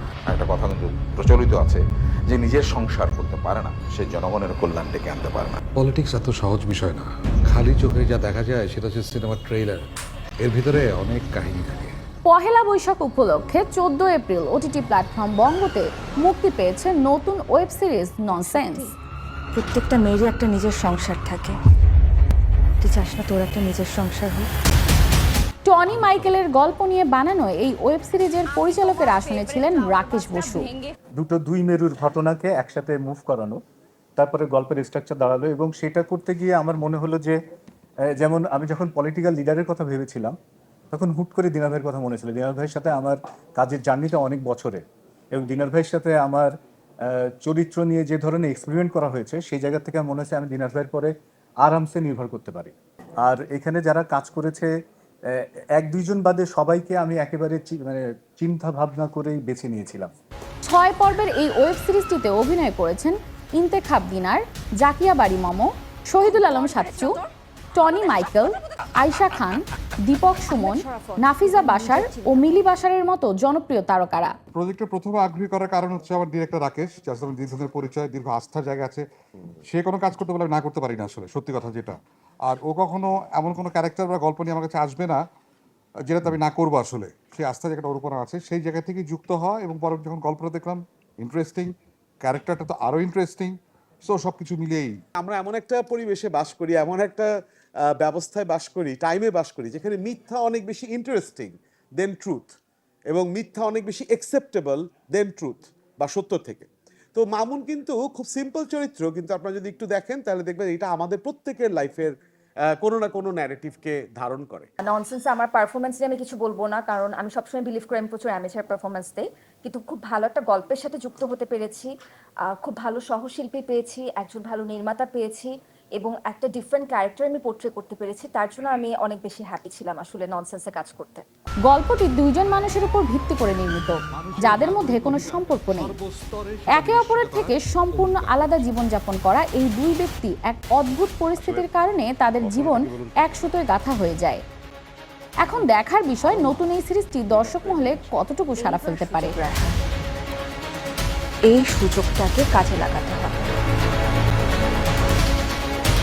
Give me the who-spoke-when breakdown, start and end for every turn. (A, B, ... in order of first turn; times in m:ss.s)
0:00.3-0:05.6 A
0:05.8-0:09.8 B
0:10.4-0:12.0 B
0:12.2-0:18.9 C
0:18.3-0:18.9 D
0:19.6-0:21.6 D
0:22.8-0:24.5 D
0:25.6-0:30.7 C
0:29.0-0:30.9 D
0:31.2-0:33.6 E
0:34.2-0:37.4 E
0:38.1-0:40.4 E
0:40.9-0:46.5 E
0:47.0-0:51.1 E
0:51.6-0:54.7 E
0:55.3-1:00.1 E
1:00.6-1:07.2 C
1:06.3-1:07.3 D
1:07.8-1:14.3 C
1:10.5-1:12.6 D
1:14.5-1:19.1 F
1:19.6-1:25.2 F
1:26.1-1:35.0 F
1:35.2-1:37.3 G
1:38.0-1:42.6 G
1:43.1-1:52.1 G
1:52.7-1:54.7 G
1:54.8-2:01.9 D
2:02.5-2:11.2 D
2:11.6-2:16.0 C
2:14.2-2:16.7 F
2:16.7-2:24.4 C
2:22.4-2:23.2 F
2:25.4-2:29.4 C
2:28.6-2:29.8 D
2:31.5-2:33.4 D